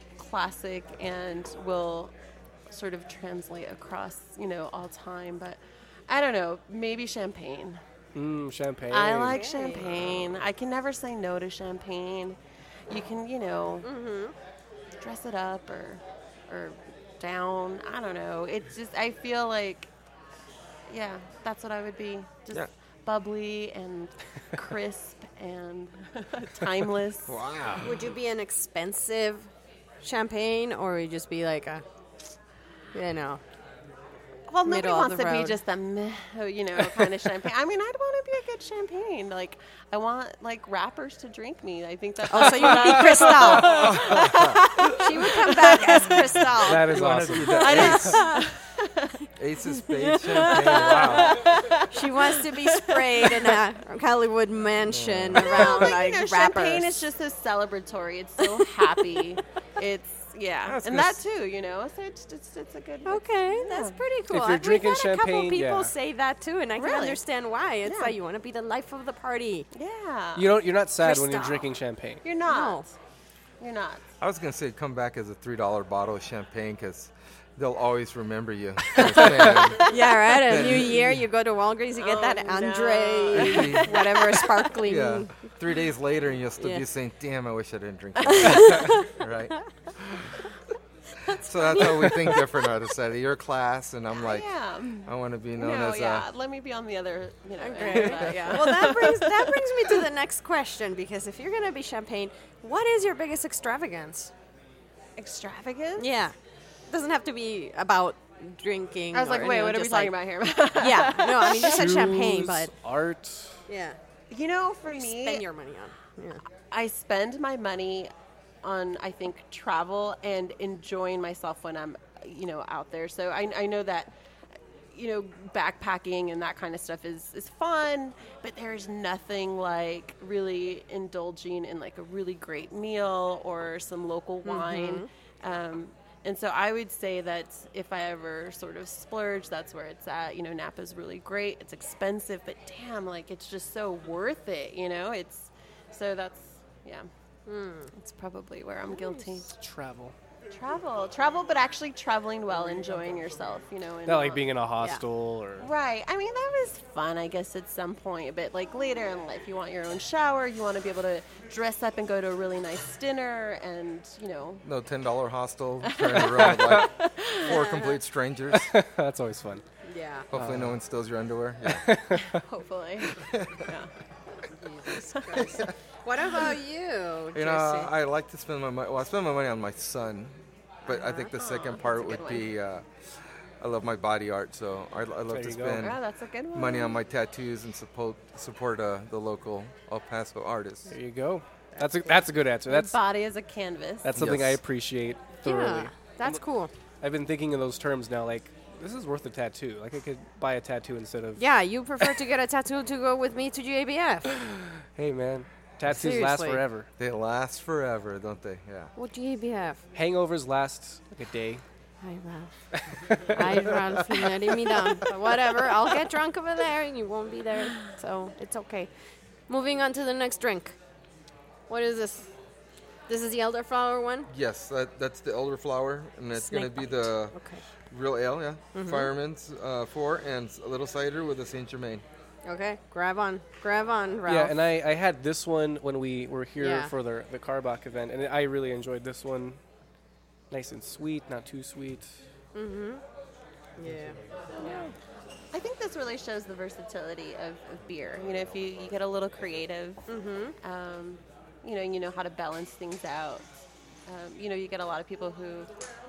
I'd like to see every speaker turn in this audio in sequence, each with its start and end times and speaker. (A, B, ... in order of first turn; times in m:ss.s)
0:00.2-0:02.1 A
0:02.7-0:07.8 A
0:08.2-0:09.4 B
0:08.9-0:12.4 A
0:09.3-0:09.9 C
0:12.9-0:13.9 A
0:13.8-0:14.4 C
0:15.0-0:19.9 A
0:20.9-0:27.4 A
0:27.3-0:27.9 D
0:27.8-0:29.5 C
0:30.0-0:31.8 C
0:32.9-0:33.4 C
0:34.5-0:46.5 A
0:34.6-0:35.6 C
0:42.3-0:48.5 C
0:43.4-0:44.8 D
0:46.6-0:48.2 B
0:46.9-0:48.2 D
0:47.4-0:49.2 A
0:49.4-0:51.6 D
0:49.7-0:57.1 C
0:50.4-0:53.6 A
0:54.9-0:55.8 D
0:55.4-1:04.0 A
0:58.4-0:59.2 C
1:00.7-1:01.2 D
1:03.0-1:09.7 C
1:04.3-1:05.9 B
1:06.8-1:07.2 A
1:07.8-1:08.2 A
1:09.7-1:10.6 A
1:10.4-1:12.2 B
1:11.0-1:11.7 C
1:12.2-1:13.0 A
1:12.5-1:12.8 C
1:13.6-1:14.0 A
1:14.2-1:21.2 D
1:19.8-1:25.4 C
1:22.0-1:24.7 A
1:23.3-1:24.0 D
1:24.8-1:30.5 D
1:26.6-1:26.8 C
1:28.3-1:29.1 C
1:31.2-1:34.5 D
1:31.2-1:32.4 C
1:34.2-1:39.9 A
1:35.0-1:36.3 D
1:37.6-1:44.3 C
1:37.9-1:38.3 D
1:45.2-1:46.1 A
1:46.0-1:46.3 C
1:46.9-1:50.2 C
1:49.1-1:52.0 A
1:50.8-1:52.7 C
1:51.6-1:53.6 B
1:53.7-1:54.0 C
1:54.3-1:55.4 A
1:54.9-1:56.4 C
1:56.7-1:58.1 A
1:58.6-2:04.1 A
2:04.9-2:27.1 A
2:14.4-2:15.1 C
2:27.5-2:27.9 C
2:27.9-2:29.5 A
2:28.9-2:29.3 C
2:29.5-2:30.2 B
2:30.5-2:34.5 A
2:34.1-2:35.7 B
2:35.6-2:44.6 A
2:44.6-2:48.7 D
2:45.8-2:47.6 A
2:46.4-2:46.8 B
2:47.5-2:48.0 C
2:48.5-2:49.6 B
2:49.8-2:50.3 C
2:50.3-2:51.9 D
2:50.3-2:50.8 B
2:51.7-2:52.4 B
2:52.3-2:53.9 A
2:53.2-2:53.7 D
2:54.5-2:57.9 C
2:55.2-2:55.5 A
2:57.3-3:00.4 D
3:00.9-3:02.9 D
3:00.9-3:01.3 C
3:01.2-3:02.5 A
3:03.6-3:06.0 D
3:05.3-3:05.9 B
3:05.8-3:07.0 A
3:06.5-3:10.9 D
3:10.9-3:13.0 B
3:12.7-3:14.1 A
3:14.0-3:16.4 B
3:14.2-3:14.6 D
3:15.4-3:16.7 C
3:17.0-3:21.4 B
3:21.4-3:24.4 C
3:24.9-3:26.9 B
3:25.8-3:26.6 C
3:27.0-3:28.9 D
3:29.0-3:29.8 C
3:29.9-3:31.6 B
3:32.0-3:32.5 C
3:32.9-3:33.8 B
3:33.1-3:38.9 C
3:34.7-3:35.0 B
3:39.5-3:40.8 C
3:41.7-3:42.3 C
3:43.1-3:44.3 C
3:44.3-3:47.4 D
3:46.3-3:47.6 C
3:47.9-3:52.0 D
3:48.7-3:49.1 C
3:52.4-3:54.6 C
3:54.3-3:59.6 B
3:56.6-3:56.9 C
4:00.5-4:02.2 B
4:02.6-4:03.0 C
4:03.8-4:04.2 C
4:03.9-4:04.1 B
4:04.6-4:04.9 A
4:05.5-4:10.0 A
4:10.1-4:10.6 C
4:10.6-4:13.5 A
4:14.1-4:15.7 A